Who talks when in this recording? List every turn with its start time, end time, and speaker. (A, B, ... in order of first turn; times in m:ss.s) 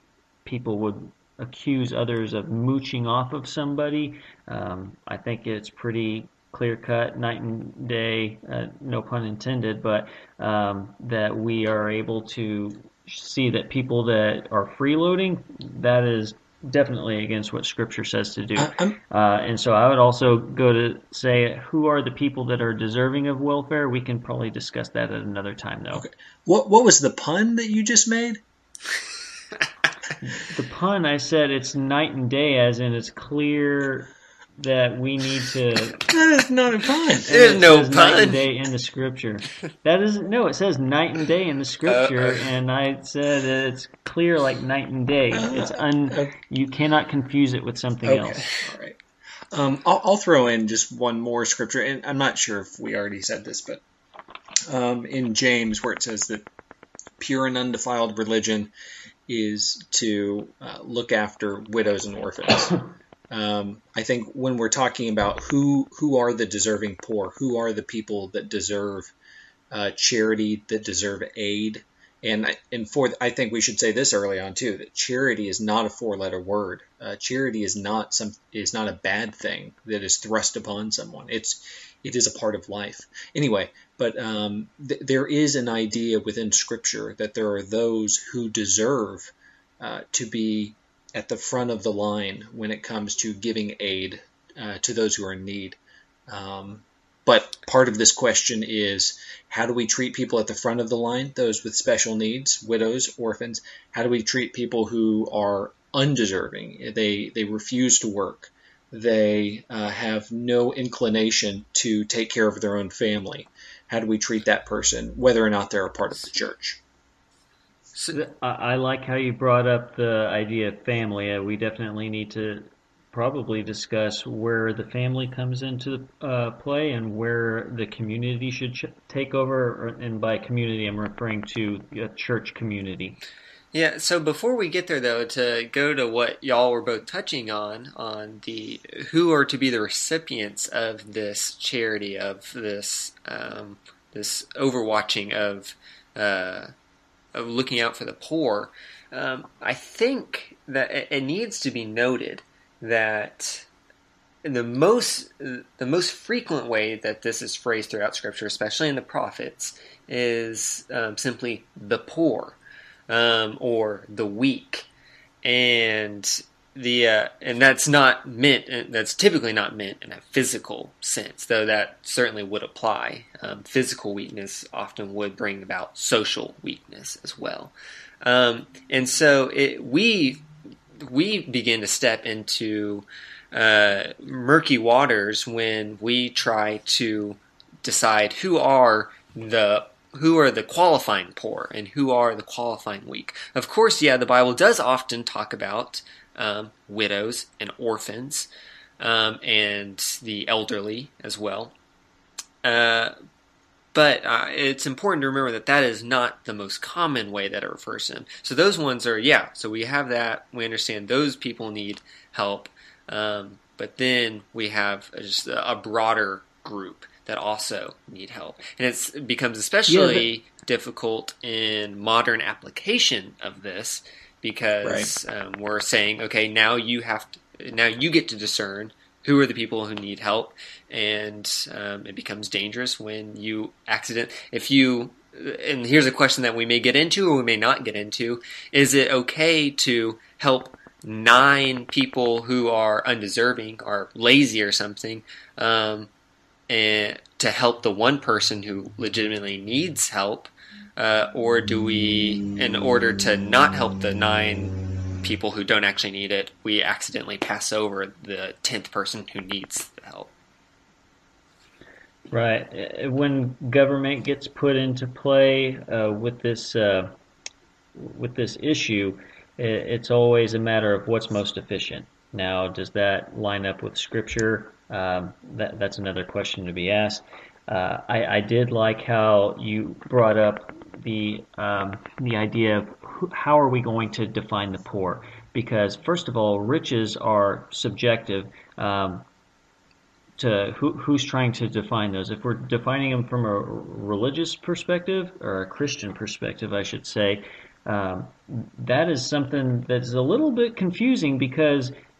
0:00.4-0:26.0 A
0:18.6-0:19.0 B
0:26.0-0:28.4 B
0:30.2-0:36.0 A
0:36.1-0:37.3 B
0:37.2-0:38.4 C
0:37.3-0:48.4 A
0:41.8-0:42.5 C
0:45.3-0:46.4 B
0:48.0-0:49.0 B
0:49.5-0:53.8 B
0:54.7-0:56.4 B
0:57.2-0:58.7 B
0:59.3-1:09.1 B
1:09.7-1:56.8 B
1:58.1-2:13.2 A
2:13.7-2:26.7 C
2:27.3-2:33.7 C
2:34.4-2:42.6 C
2:43.1-2:44.9 C
2:45.4-3:18.5 C
3:19.0-3:21.7 C
3:22.6-3:23.1 C
3:23.9-4:06.1 C
3:39.9-3:40.3 B
3:44.8-3:45.1 B
4:06.7-4:20.3 C
4:22.3-4:27.1 A
4:28.0-4:49.2 A
4:50.4-5:01.9 A